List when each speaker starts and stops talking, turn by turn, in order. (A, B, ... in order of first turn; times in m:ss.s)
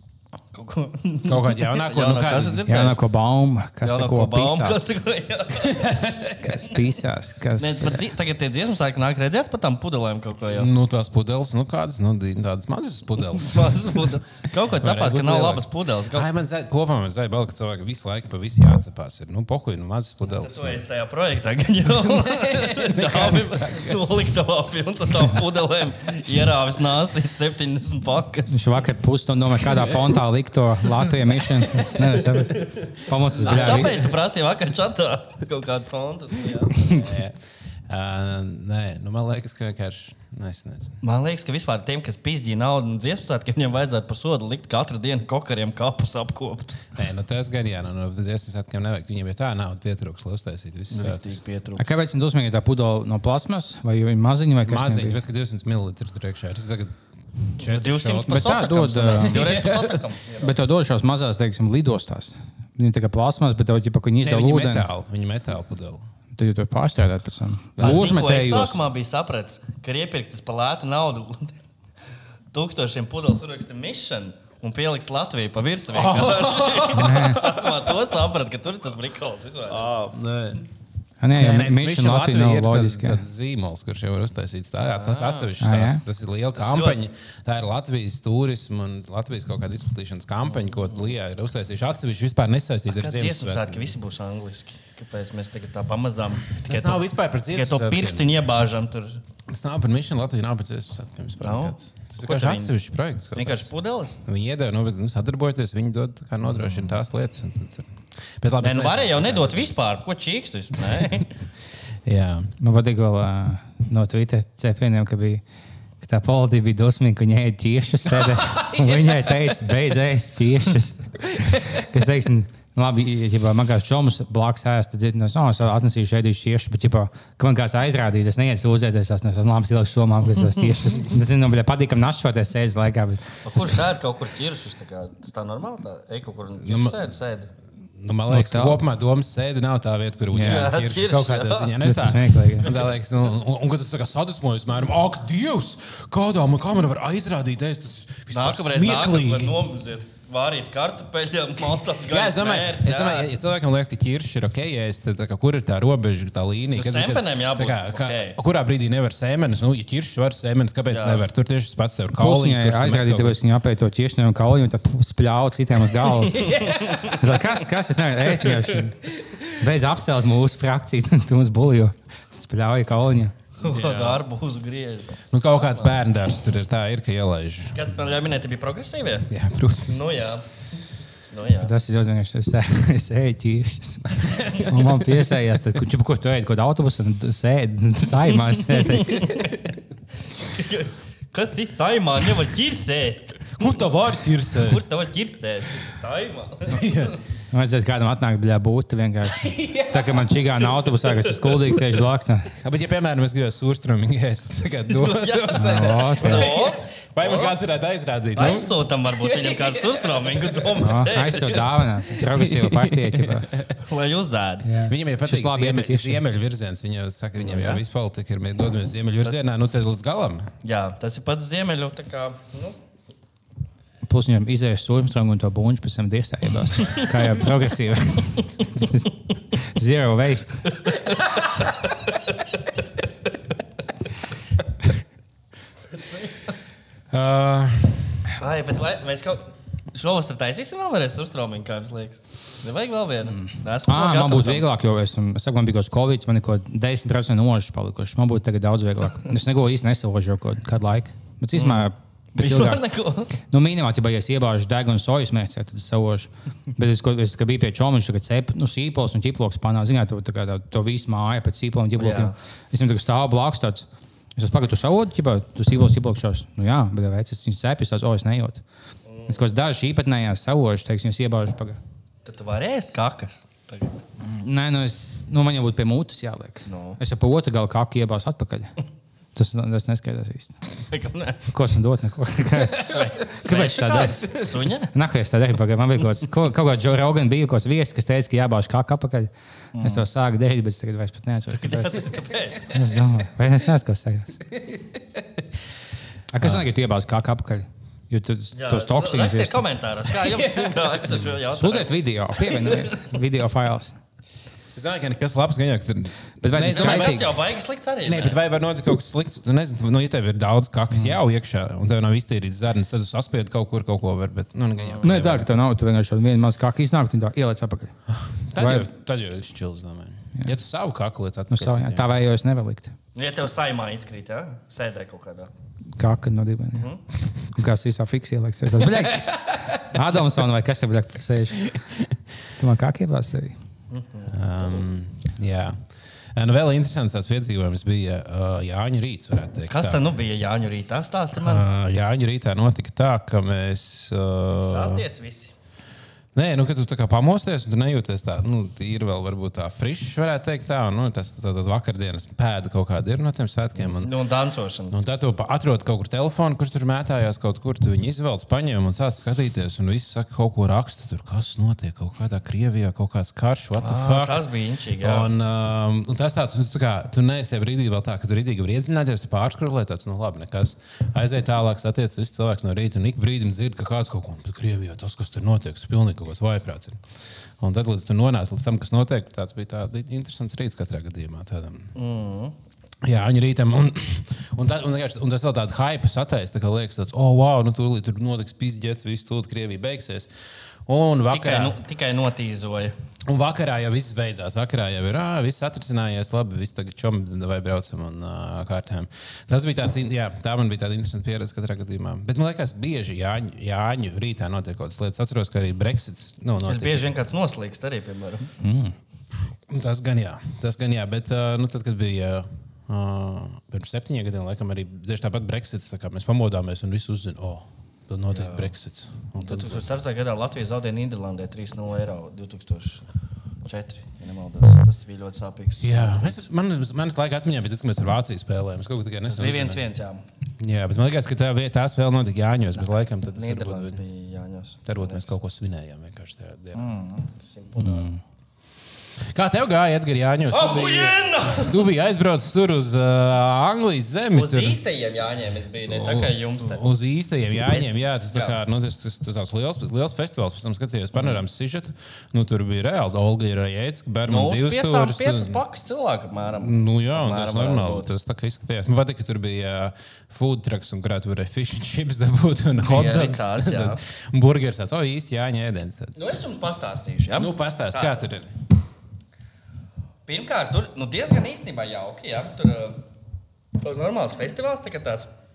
0:00.5-0:03.0 A
0:01.2-0:02.6 B
0:02.7-0:04.9 C
0:03.8-0:06.0 A
0:05.6-0:06.4 B
0:06.4-0:08.0 C
0:07.6-0:10.7 A
0:10.5-0:14.0 B
0:13.4-0:16.3 A
0:14.6-0:20.8 B
0:20.3-0:28.6 A
0:21.9-0:24.2 B
0:28.5-0:34.0 C
0:31.8-0:32.7 A
0:33.4-0:34.1 B
0:33.4-0:37.2 A
0:36.8-0:40.9 B
0:41.0-0:46.9 A
0:46.9-0:51.3 B
0:50.9-0:51.8 A
0:51.8-0:55.2 C
0:54.6-0:58.5 B
0:57.6-1:00.6 A
0:58.3-0:59.6 C
0:59.1-1:00.0 B
1:00.4-1:04.9 C
1:04.2-1:06.0 B
1:06.4-1:07.8 C
1:07.8-1:08.8 B
1:07.8-1:11.6 A
1:12.5-1:19.9 A
1:15.9-1:18.0 B
1:16.9-1:17.4 C
1:19.7-1:20.6 B
1:21.2-1:23.2 C
1:21.3-1:33.9 B
1:24.9-1:25.5 A
1:25.6-1:26.0 C
1:26.6-1:27.0 A
1:32.9-1:39.2 A
1:36.6-1:38.3 B
1:39.5-1:43.7 B
1:41.4-1:42.7 A
1:43.4-1:44.2 A
1:44.2-1:49.8 B
1:48.6-1:51.4 A
1:50.8-1:51.1 B
1:52.0-1:52.5 B
1:52.6-1:55.4 C
1:56.0-2:13.8 C
1:58.4-1:59.2 B
2:13.4-2:17.5 A
2:16.6-2:17.1 B
2:17.9-2:29.6 B
2:18.3-2:18.8 C
2:20.3-2:20.7 C
2:20.4-2:21.7 A
2:21.8-2:22.7 C
2:22.6-2:22.9 A
2:28.3-2:33.3 A
2:32.1-2:43.4 B
2:36.8-2:38.4 A
2:40.9-2:41.2 A
2:42.2-2:53.4 C
2:46.2-2:47.2 B
2:46.4-2:47.2 A
2:48.5-2:48.8 A
2:53.6-2:55.9 A
2:53.6-2:54.2 B
2:55.3-2:57.9 B
2:57.7-2:59.3 A
2:59.3-3:00.0 B
2:59.9-3:01.7 A
3:01.6-3:09.4 C
3:04.2-3:05.2 B
3:08.7-3:09.6 A
3:10.3-3:13.8 A
3:13.6-3:14.9 B
3:14.5-3:17.2 A
3:16.7-3:17.2 B
3:17.5-3:22.5 C
3:19.4-3:20.2 B
3:22.6-3:30.8 B
3:24.9-3:27.6 A
3:25.5-3:26.5 C
3:28.3-3:31.7 A
3:30.8-3:33.5 C
3:32.1-3:33.8 B
3:33.8-3:34.7 A
3:34.6-3:36.2 C
3:34.9-3:40.5 B
3:37.4-3:37.8 A
3:40.6-3:42.8 A
3:44.1-3:50.8 C
3:50.8-3:52.3 A
3:55.9-3:56.5 A
3:57.1-3:58.3 B
3:58.4-4:04.6 A
4:03.8-4:12.8 C
4:11.6-4:13.3 A
4:13.4-4:28.6 C
4:22.0-4:22.3 A
4:29.1-4:29.4 A
4:29.3-4:31.8 C
4:32.2-4:34.0 A
4:34.2-4:38.7 C
4:36.7-4:37.0 A
4:39.3-4:40.6 C
4:40.9-4:41.4 A
4:41.5-4:44.3 C
4:42.6-4:44.5 B
4:43.4-4:44.9 A
4:44.9-4:54.4 C
4:49.7-4:50.0 A
4:51.6-4:52.7 A
4:54.6-4:55.4 B
4:56.3-4:59.6 C
4:58.5-5:03.0 A
5:00.2-5:01.3 B
5:01.5-5:04.0 C
5:04.7-5:07.4 B
5:06.4-5:07.3 C
5:06.6-5:08.4 A
5:08.0-5:15.5 B
5:15.0-5:17.9 C
5:18.1-5:22.1 B
5:18.6-5:18.9 C
5:21.5-5:22.9 C
5:23.1-5:25.5 A
5:26.0-5:26.9 C
5:26.7-5:27.0 A
5:27.5-5:31.7 C
5:28.8-5:29.6 B
5:32.6-5:33.6 C
5:33.9-5:34.9 A
5:34.3-5:40.0 B
5:39.7-5:41.6 A
5:41.4-5:45.0 B
5:44.6-5:45.5 A
5:46.3-5:54.1 B
5:53.9-5:55.0 A
5:54.9-6:04.4 B
6:03.8-6:05.3 A
6:05.0-6:17.0 B
6:17.6-6:21.9 B
6:21.9-6:22.6 A
6:23.0-6:30.3 B
6:30.8-6:31.8 B
6:31.3-6:32.9 A
6:33.3-6:47.1 B
6:46.6-6:48.5 A
6:48.6-6:48.9 C
6:49.7-6:59.8 B
6:58.3-6:58.7 A
6:59.4-7:03.0 A
7:03.6-7:06.4 A
7:05.8-7:09.8 B
7:09.2-7:10.2 A
7:10.6-7:14.0 B
7:13.2-7:15.3 A
7:14.9-7:17.0 B
7:16.7-7:18.1 A
7:17.8-7:18.2 C
7:19.3-7:24.8 B
7:20.5-7:21.8 A
7:24.3-7:26.9 A
7:25.9-7:35.6 B
7:27.7-7:28.6 A
7:34.3-7:38.1 A
7:36.5-7:46.2 B
7:42.8-7:44.0 A
7:46.2-7:48.2 A
7:47.3-7:48.5 B
7:50.3-7:53.0 A
7:53.8-7:55.3 A